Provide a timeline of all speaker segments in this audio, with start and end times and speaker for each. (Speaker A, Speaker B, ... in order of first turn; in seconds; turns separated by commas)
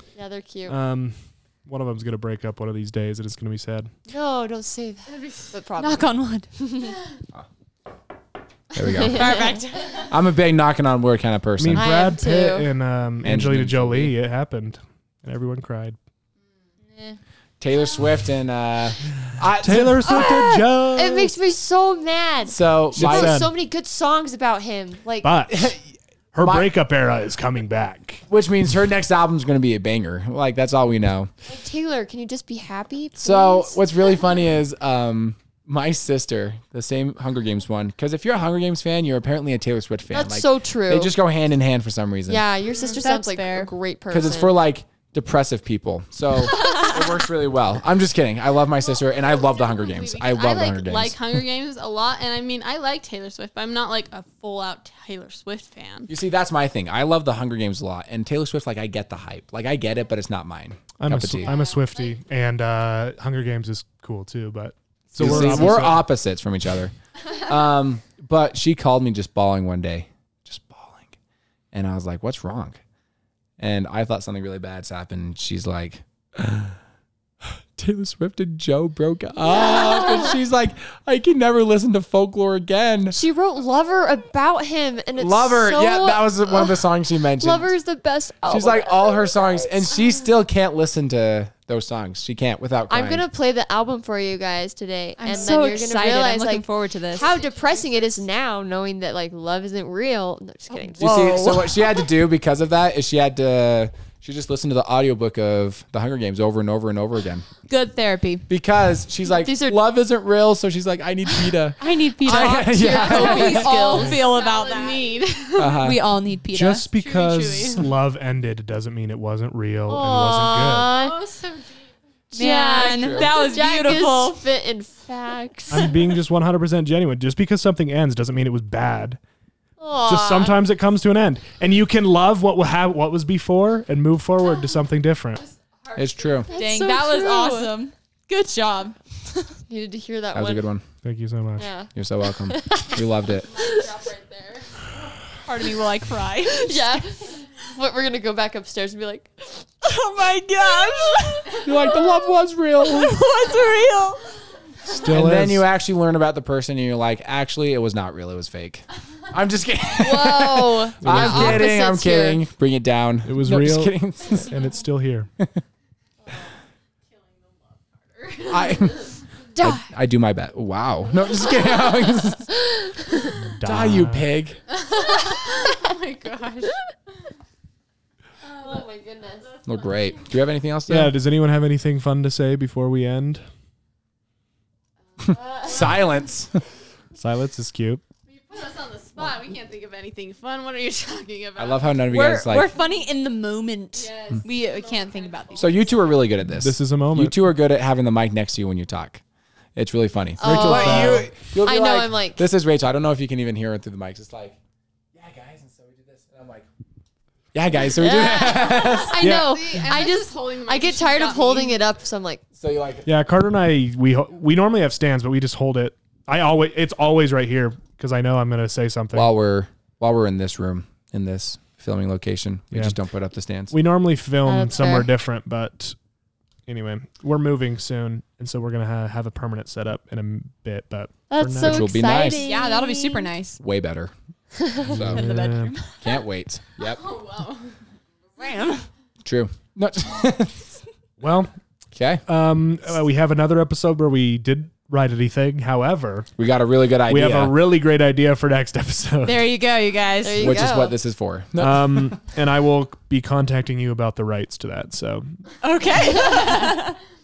Speaker A: 0.1-0.8, Speaker B: 0.7-3.9, Speaker A: 4.1-7.0, Speaker C: 5.1-5.5, Speaker D: 5.8-6.5, Speaker E: 8.7-9.3, Speaker A: 8.9-9.7, Speaker D: 9.1-10.0, Speaker C: 9.1-10.1, Speaker E: 10.1-12.1, Speaker B: 11.6-16.0, Speaker A: 11.7-12.7, Speaker E: 13.2-14.1, Speaker E: 17.6-20.4, Speaker B: 19.6-21.3, Speaker A: 20.0-25.3, Speaker E: 22.5-23.4, Speaker B: 22.9-23.5, Speaker B: 25.2-25.8, Speaker E: 25.5-25.8, Speaker B: 26.3-28.2, Speaker E: 26.4-26.7, Speaker E: 28.3-31.3, Speaker A: 31.4-34.0, Speaker E: 33.2-42.4, Speaker A: 40.1-41.1, Speaker A: 42.3-44.5, Speaker D: 42.7-43.7, Speaker E: 44.1-51.2, Speaker D: 46.5-47.1, Speaker C: 48.8-56.1, Speaker E: 56.1-61.5, Speaker B: 61.0-66.1, Speaker C: 61.4-62.2, Speaker E: 65.2-71.2, Speaker E: 71.7-72.8, Speaker E: 73.6-76.8, Speaker E: 77.4-83.2, Speaker A: 79.6-80.3, Speaker A: 83.1-89.7, Speaker E: 85.2-87.7, Speaker E: 88.5-93.2, Speaker A: 92.9-101.4, Speaker D: 95.2-97.3, Speaker C: 97.2-98.2, Speaker D: 100.7-101.8, Speaker E: 101.0-107.5, Speaker D: 107.7-108.5, Speaker E: 108.5-114.1, Speaker A: 109.3-109.8, Speaker A: 111.8-114.3, Speaker D: 111.8-115.1, Speaker C: 113.2-113.5, Speaker C: 114.1-115.8, Speaker E: 115.6-116.0, Speaker D: 115.7-116.9, Speaker B: 116.5-120.9, Speaker C: 116.9-117.8, Speaker A: 119.9-121.2, Speaker C: 120.9-121.9, Speaker A: 122.3-126.1, Speaker D: 122.3-124.4, Speaker E: 122.8-123.3, Speaker B: 125.7-129.2, Speaker A: 129.8-130.6, Speaker B: 130.0-135.4, Speaker C: 135.8-136.5, Speaker E: 135.9-136.5, Speaker A: 136.5-137.8, Speaker D: 136.6-139.6, Speaker A: 139.7-140.7, Speaker E: 140.3-140.8, Speaker B: 141.0-141.7, Speaker A: 141.6-143.8, Speaker E: 141.9-143.5, Speaker C: 143.3-144.9, Speaker D: 145.4-147.0, Speaker A: 146.4-149.8, Speaker D: 149.8-151.7, Speaker A: 150.6-151.4, Speaker E: 151.6-153.2, Speaker D: 152.8-154.2, Speaker B: 154.8-155.7, Speaker E: 154.9-164.5, Speaker A: 159.9-162.4, Speaker B: 161.0-161.7, Speaker B: 163.2-165.3, Speaker C: 167.1-169.1, Speaker E: 168.5-169.1, Speaker D: 169.6-169.9, Speaker E: 169.6-172.5, Speaker C: 171.5-171.9, Speaker B: 173.4-174.3, Speaker E: 173.6-174.6, Speaker C: 174.7-177.1, Speaker C: 178.4-180.4, Speaker A: 178.4-179.5, Speaker E: 179.7-181.1, Speaker B: 180.9-183.4, Speaker A: 185.2-185.9, Speaker E: 185.3-186.6, Speaker B: 187.2-188.0, Speaker C: 188.3-191.9, Speaker E: 191.6-192.7, Speaker D: 192.1-195.8, Speaker C: 193.9-196.1, Speaker E: 195.6-199.2, Speaker B: 196.5-197.4, Speaker E: 199.8-204.6, Speaker A: 200.4-202.4, Speaker B: 200.4-201.3, Speaker E: 205.1-206.7, Speaker E: 207.5-209.2, Speaker A: 207.8-212.4, Speaker C: 208.7-211.8, Speaker B: 209.2-209.8, Speaker E: 212.6-213.1, Speaker B: 213.1-219.3, Speaker E: 219.1-223.7, Speaker B: 222.7-222.9, Speaker B: 223.7-225.9, Speaker A: 224.4-225.1, Speaker B: 226.7-231.8, Speaker A: 231.3-233.3, Speaker E: 231.6-232.5, Speaker D: 232.4-233.6, Speaker E: 233.6-234.1, Speaker A: 234.6-235.0, Speaker E: 234.8-235.2, Speaker B: 234.9-235.7, Speaker D: 235.0-236.2, Speaker E: 236.0-237.1, Speaker C: 236.8-237.8, Speaker D: 238.4-238.9, Speaker E: 239.2-240.6, Speaker B: 241.2-241.5, Speaker E: 241.9-242.2, Speaker B: 242.2-246.3, Speaker E: 246.4-247.6, Speaker B: 247.1-249.4, Speaker D: 249.2-250.7, Speaker A: 250.2-251.0, Speaker E: 250.4-252.2, Speaker B: 251.6-255.4, Speaker D: 255.6-257.0